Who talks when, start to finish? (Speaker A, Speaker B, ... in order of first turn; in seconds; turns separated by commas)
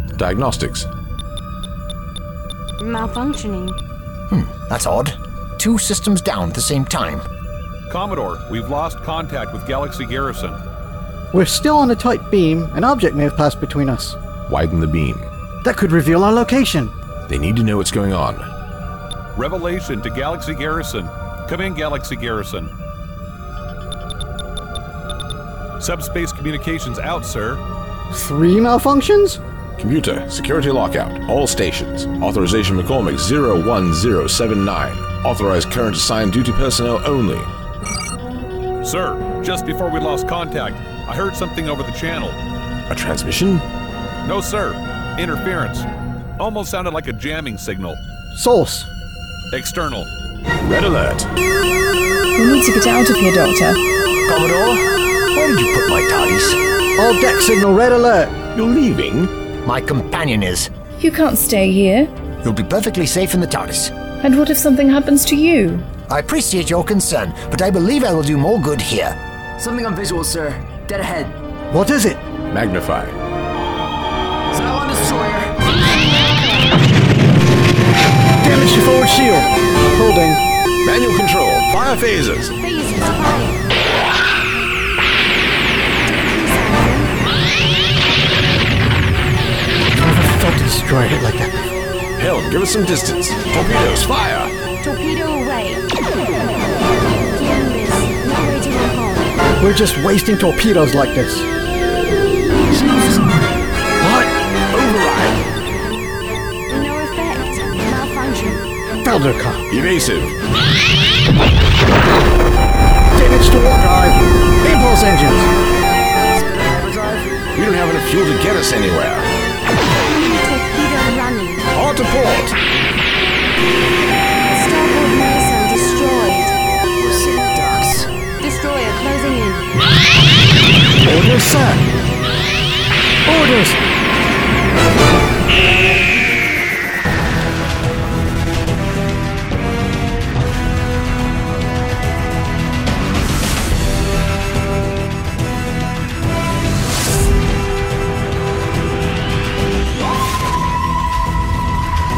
Speaker A: 0.2-0.9, Speaker B: 2.8-3.8, Speaker C: 4.3-7.3, Speaker D: 7.9-10.6, Speaker E: 11.3-14.2, Speaker A: 14.5-15.3, Speaker E: 15.6-16.9, Speaker A: 17.3-18.5, Speaker D: 19.4-22.7, Speaker D: 25.8-27.6, Speaker E: 28.1-29.4, Speaker A: 29.8-37.5, Speaker D: 38.8-42.4, Speaker A: 42.9-43.6, Speaker D: 44.2-45.9, Speaker D: 46.4-48.0, Speaker E: 48.3-48.9, Speaker D: 49.5-50.1, Speaker A: 50.6-51.3, Speaker F: 52.4-53.8, Speaker C: 54.3-56.6, Speaker E: 57.0-58.4, Speaker A: 58.5-59.3, Speaker C: 59.6-60.7, Speaker F: 61.0-62.1, Speaker C: 62.4-63.9, Speaker F: 64.2-65.9, Speaker C: 66.1-69.2, Speaker G: 69.6-71.4, Speaker E: 71.7-72.2, Speaker A: 72.5-73.2, Speaker G: 74.5-75.5, Speaker E: 78.4-80.4, Speaker A: 80.8-82.5, Speaker B: 82.6-83.6, Speaker B: 86.1-87.1, Speaker E: 90.0-91.5, Speaker A: 92.2-94.5, Speaker B: 94.8-95.8, Speaker B: 97.3-99.3, Speaker E: 99.6-101.5, Speaker E: 102.7-103.3, Speaker A: 104.0-105.4, Speaker B: 106.7-108.7, Speaker E: 109.0-109.7, Speaker A: 109.7-110.3, Speaker E: 113.2-115.5, Speaker G: 116.3-117.3, Speaker A: 117.5-119.3, Speaker B: 120.1-121.7, Speaker A: 121.7-122.6, Speaker B: 124.5-126.5, Speaker G: 127.0-128.1, Speaker B: 128.4-129.7, Speaker E: 131.0-131.8, Speaker E: 133.3-133.8